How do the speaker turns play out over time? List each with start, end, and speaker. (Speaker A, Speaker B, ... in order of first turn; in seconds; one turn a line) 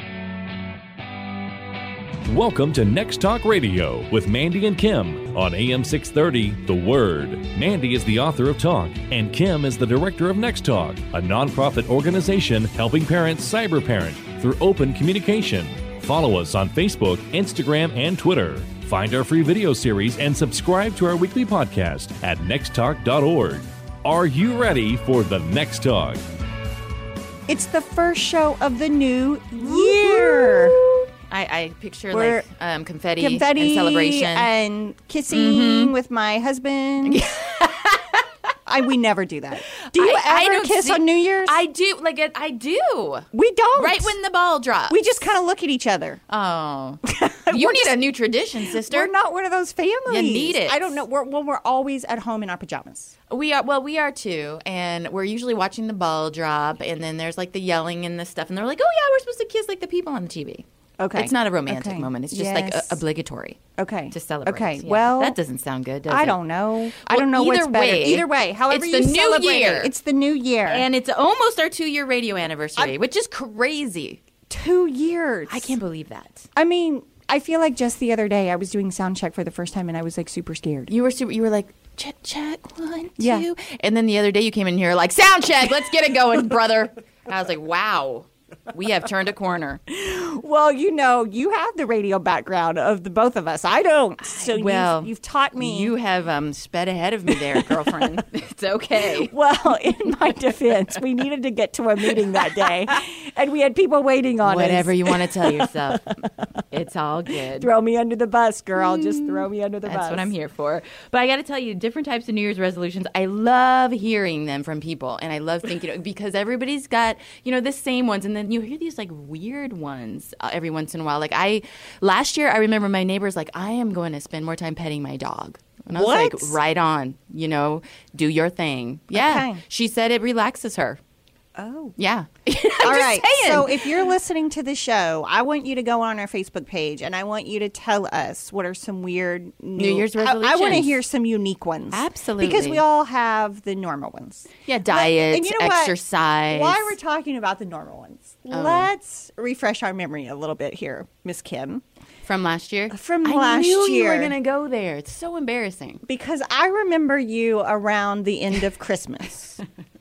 Speaker A: 2.2-26.2
Speaker B: 27.5-30.8
Speaker C: 29.6-34.5
Speaker B: 32.1-32.4
Speaker B: 33.2-37.3
Speaker C: 35.3-35.9
Speaker C: 37.0-38.3
Speaker B: 38.6-41.6
Speaker C: 39.8-45.0
Speaker B: 43.3-44.1
Speaker B: 44.9-46.2
Speaker C: 46.3-49.1
Speaker B: 47.0-48.0
Speaker B: 48.8-53.1
Speaker C: 50.1-50.8
Speaker C: 53.3-63.6
Speaker B: 61.0-63.0
Speaker B: 63.8-65.4
Speaker C: 64.1-66.4
Speaker B: 66.1-70.8
Speaker C: 67.0-69.9
Speaker C: 70.7-74.2
Speaker B: 74.5-75.8
Speaker C: 75.5-76.5
Speaker B: 76.5-80.9
Speaker C: 80.9-89.8
Speaker B: 83.2-83.5
Speaker B: 89.9-95.9
Speaker C: 94.5-99.3
Speaker B: 97.3-97.9
Speaker B: 99.2-106.2
Speaker C: 104.4-107.7
Speaker B: 107.6-110.3
Speaker C: 108.8-131.0
Speaker B: 125.9-126.6
Speaker B: 129.1-129.6
Speaker B: 131.6-132.0
Speaker C: 132.0-134.0
Speaker B: 132.8-146.0
Speaker C: 139.8-141.0
Speaker C: 141.9-142.8
Speaker C: 144.7-146.9
Speaker B: 146.5-151.8
Speaker C: 148.5-148.9
Speaker C: 152.2-156.0
Speaker B: 152.9-154.3
Speaker B: 156.0-159.6